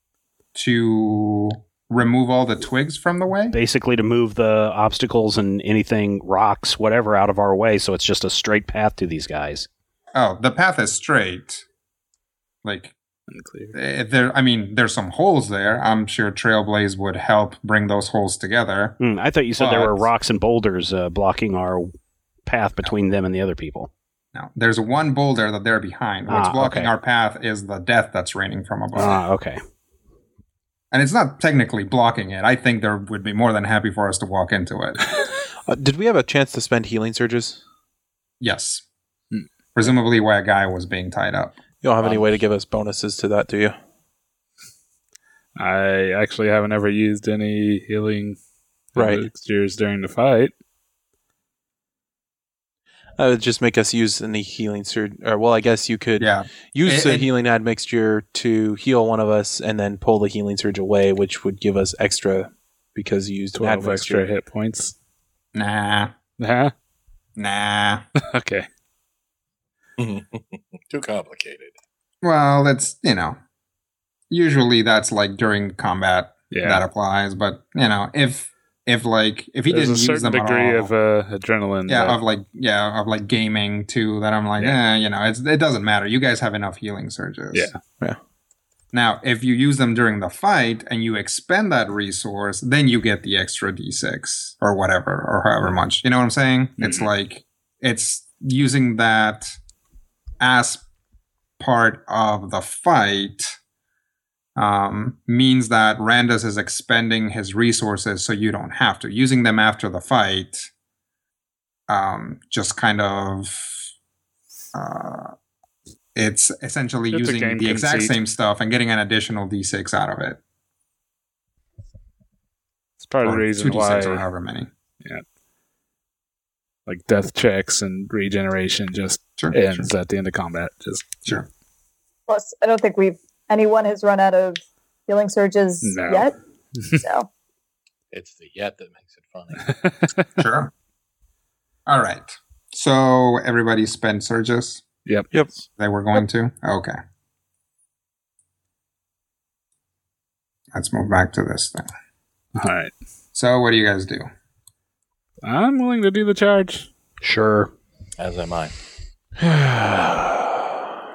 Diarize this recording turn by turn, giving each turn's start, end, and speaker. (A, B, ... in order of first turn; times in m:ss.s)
0:00.5-0:03.6 A
0:03.5-0:09.7 B
0:10.1-0:11.6 A
0:12.6-0:12.9 A
0:13.3-0:13.7 C
0:13.7-0:19.0 A
0:19.0-0:21.9 B
0:19.6-0:20.1 A
0:22.4-0:23.9 B
0:24.3-0:29.2 A
0:26.3-0:26.9 B
0:28.9-0:29.6 B
0:30.9-0:35.0 A
0:35.7-0:37.6 D
0:38.4-0:38.8 A
0:39.7-0:41.6 A
0:41.8-0:43.8 D
0:42.0-0:42.4 E
0:45.6-0:48.4 C
0:48.9-0:50.5 C
0:49.0-0:49.3 D
0:53.2-1:04.3 D
0:56.2-0:57.3 A
1:03.5-1:04.9 C
1:05.5-1:06.1 A
1:06.4-1:06.7 C
1:07.4-1:08.0 A
1:08.3-1:08.7 C
1:10.0-1:11.7 E
1:12.2-1:13.4 A
1:14.3-1:20.9 A
1:16.5-1:16.8 C
1:19.7-1:22.2 C
1:21.9-1:27.7 A
1:27.5-1:27.8 C
1:28.9-1:39.6 A
1:36.8-1:37.1 C
1:40.4-1:40.8 A
1:41.6-1:43.6 A
1:44.6-1:50.7 A
1:51.9-1:53.8 A
1:54.7-1:55.3 A
1:56.2-2:00.4 A
1:57.1-1:58.2 C
2:03.0-2:04.2 C
2:03.2-2:04.7 A
2:06.9-2:11.4 C
2:09.4-2:09.9 A
2:12.3-2:16.4 F
2:15.8-2:17.0 C
2:17.0-2:17.3 F
2:18.1-2:19.7 E
2:20.4-2:20.7 A
2:21.9-2:24.8 A
2:25.8-2:27.0 A
2:30.7-2:31.9 A
2:32.6-2:32.9 C
2:33.3-2:34.3 A
2:35.4-2:36.9 C
2:37.2-2:37.7 B
2:38.2-2:38.7 E
2:39.4-2:40.7 D